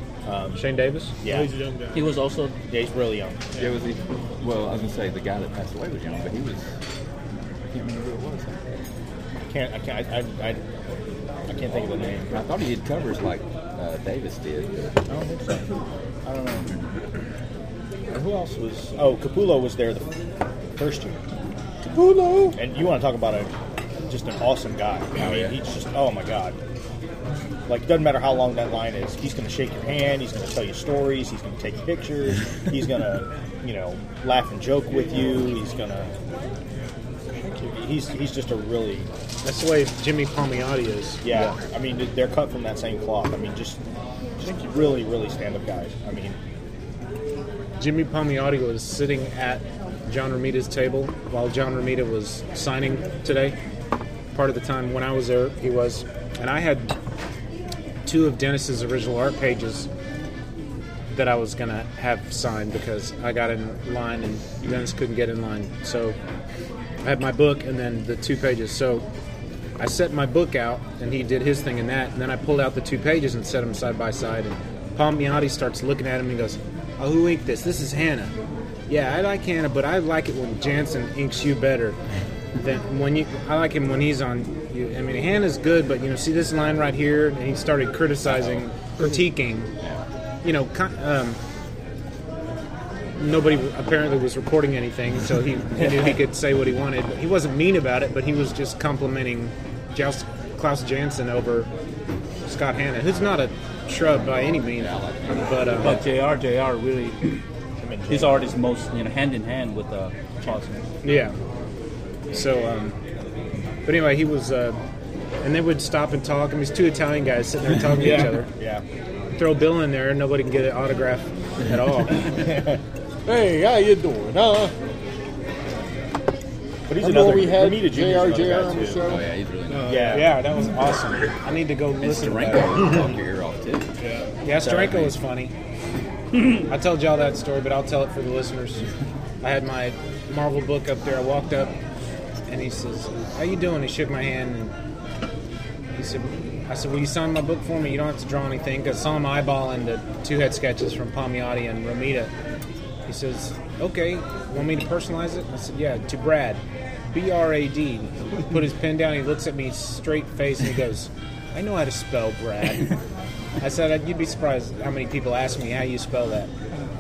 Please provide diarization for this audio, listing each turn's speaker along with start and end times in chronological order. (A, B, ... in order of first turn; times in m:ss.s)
0:00.3-0:00.6 A
0:00.6-0:01.1 B
0:01.2-0:01.6 A
0:01.9-0:02.6 C
0:02.7-0:03.4 A
0:03.6-0:06.8 D
0:07.7-0:08.6 D
0:09.5-0:10.6 A
0:11.5-0:12.4 A
0:12.3-0:15.0 D
0:15.1-0:15.6 A
0:16.2-0:16.7 A
0:16.6-0:16.8 D
0:18.1-0:20.1 A
0:20.8-0:21.2 A
0:21.9-0:22.6 E
0:22.6-0:23.5 A
0:24.1-0:26.6 A
0:25.2-0:25.6 D
0:27.7-0:36.1 A
0:37.3-0:37.7 E
0:37.7-0:39.1 A
0:39.4-0:41.2 B
0:41.2-0:43.8 A
0:44.4-0:46.4 A
0:47.8-0:53.6 B
0:54.3-0:56.9 B
0:58.0-0:59.9 B
1:01.1-1:06.2 B
1:07.0-1:09.0 B
1:09.8-1:18.3 B
1:18.9-1:22.0 B
1:22.6-1:29.7 B
1:28.2-1:28.6 D
1:29.8-1:30.0 D
1:30.4-1:31.4 B
1:33.2-1:41.7 B
1:42.5-1:46.0 B
1:44.7-1:45.9 D
1:45.7-1:47.4 C
1:47.8-1:48.5 A
1:48.1-1:50.8 C
1:51.0-1:51.4 B
1:52.3-1:53.0 B
1:53.8-1:54.8 B
1:55.4-1:58.5 B
1:58.0-1:58.3 E
1:58.6-1:58.8 A
1:59.4-2:02.2 B
2:01.6-2:02.1 D
2:02.4-2:02.8 A
2:03.3-2:04.7 E
2:06.9-2:09.2 A
2:07.0-2:10.0 E
2:09.0-2:10.1 D
2:09.8-2:10.4 A
2:10.1-2:13.1 B
2:12.0-2:13.9 D
2:14.4-2:15.5 B
2:14.6-2:15.1 A
2:16.3-2:16.6 C
2:16.7-2:18.8 B
2:19.4-2:21.7 B
2:22.5-2:24.7 B
2:25.9-2:32.3 B
2:33.1-2:36.6 B
2:37.1-2:42.9 B
2:43.6-2:46.5 B